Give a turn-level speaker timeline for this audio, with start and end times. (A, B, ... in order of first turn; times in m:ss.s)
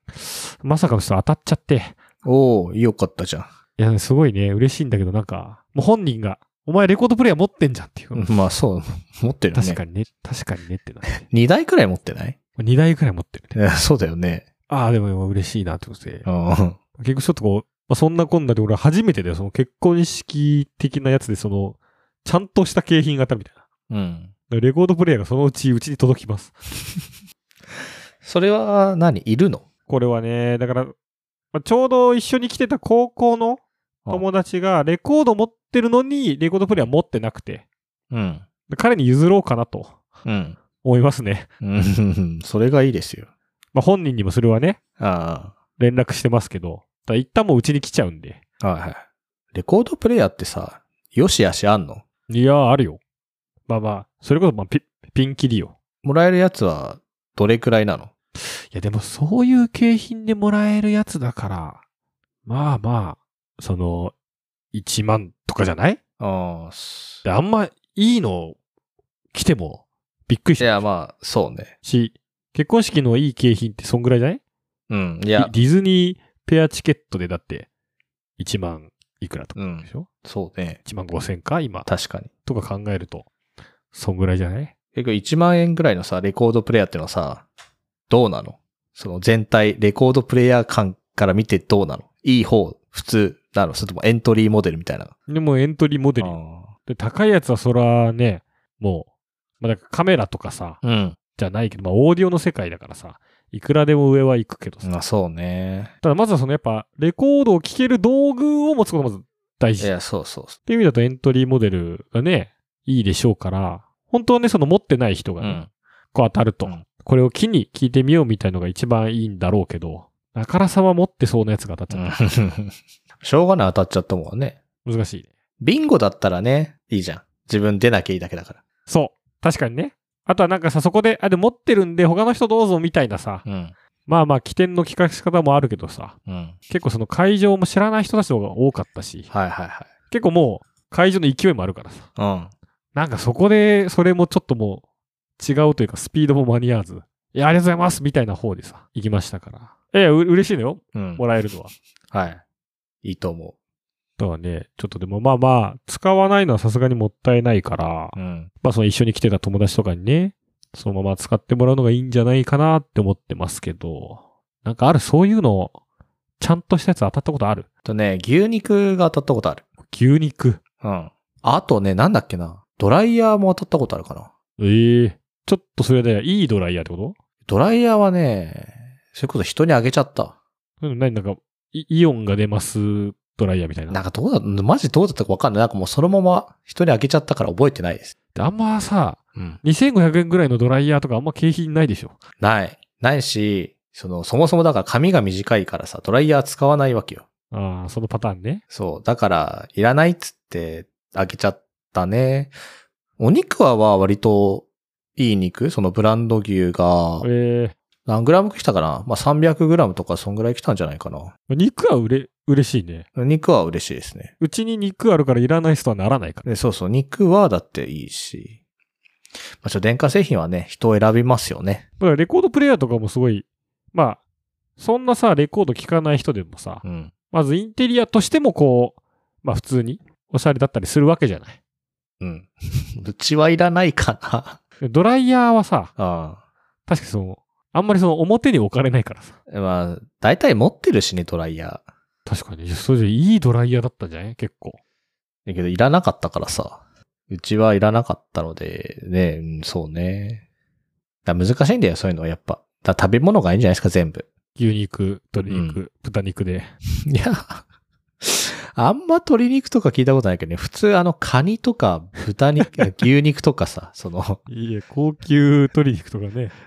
0:00.1-0:02.0 A
0:02.2-0:03.5 B
0:03.8-0:08.3 A
0:08.2-0:09.8 B
0:09.5-0:11.2 A
0:11.1-0:12.4 B
0:12.6-0:13.6 A
0:13.6-0:14.4 B
0:14.7-0:16.3 A
0:16.2-0:16.8 B
0:17.0-0:23.6 A
0:23.9-0:24.3 B
0:24.5-0:26.6 A
0:28.2-0:29.6 B
0:29.9-0:31.0 A
0:31.5-0:37.6 A
0:38.1-0:38.4 B
0:38.7-0:40.0 A
0:40.2-0:40.6 B
0:40.8-0:41.5 A
0:41.6-0:43.3 B
0:43.7-0:44.8 A
0:45.0-0:45.6 B
0:45.8-0:48.4 A
0:48.6-0:49.0 B
0:49.5-0:52.0 B
0:52.3-0:53.0 A
0:53.7-0:55.7 A
0:56.0-0:58.1 B
0:58.4-1:01.8 A
1:02.5-1:04.1 A
1:04.7-1:06.0 A
1:06.2-1:07.2 B
1:07.2-1:08.6 A
1:09.3-1:10.8 A
1:10.6-1:11.7 B
1:11.8-1:14.4 A
1:14.9-1:15.5 B
1:15.4-1:17.7 A
1:18.4-1:20.1 A
1:19.6-1:20.8 B
1:20.9-1:21.9 A
1:21.9-1:22.3 B
1:22.4-1:23.3 A
1:23.9-1:24.7 A
1:24.9-1:27.4 B
1:28.1-1:35.1 B
1:35.3-1:39.1 A
1:36.2-1:36.7 B
1:39.6-1:40.8 A
1:40.8-1:41.2 B
1:41.4-1:44.9 A
1:44.8-1:45.9 B
1:46.0-1:49.9 A
1:49.8-1:50.6 B
1:50.7-1:55.6 A
1:55.4-1:55.7 B
1:56.1-2:02.2 A
2:01.9-2:04.6 B
2:04.8-2:05.3 A
2:05.6-2:08.6 B
2:08.9-2:13.4 A
2:13.5-2:13.8 B
2:14.1-2:16.2 A
2:16.3-2:16.6 B
2:16.7-2:19.3 A
2:19.3-2:19.9 B
2:20.1-2:22.1 A
2:22.2-2:22.5 B
2:23.0-2:24.8 A
2:25.4-2:31.7 A
2:31.0-2:31.2 B
2:32.1-2:32.4 B
2:33.0-2:33.6 B
2:34.2-2:45.8 A
2:38.2-2:38.5 B
2:46.4-2:47.7 A
2:47.8-2:49.6 B
2:49.8-2:50.6 A
2:50.8-2:54.3 B
2:54.6-2:57.2 A
2:57.5-3:00.4 B
3:00.8-3:04.0 A
3:03.9-3:08.1 B
3:08.4-3:12.2 A
3:09.4-3:09.6 B
3:12.4-3:17.2 B
3:17.5-3:18.6 A
3:18.7-3:22.5 B
3:23.2-3:27.3 B
3:27.2-3:27.8 A
3:28.1-3:31.3 B
3:31.5-3:33.1 A
3:33.2-3:34.3 B
3:34.4-3:36.4 A
3:36.4-3:38.6 B
3:39.6-3:41.8 B
3:42.0-3:44.2 A
3:44.8-3:51.6 A
3:46.8-3:47.1 B
3:52.2-3:54.6 B
3:54.8-3:55.9 A
3:56.0-3:56.4 B
3:56.9-3:59.4 A
3:59.5-4:01.8 B
4:02.3-4:04.8 A
4:05.5-4:10.4 B
4:11.3-4:14.3 B
4:14.6-4:16.7 A
4:15.5-4:15.8 B
4:17.1-4:17.6 B
4:18.2-4:24.4 B
4:24.5-4:26.5 A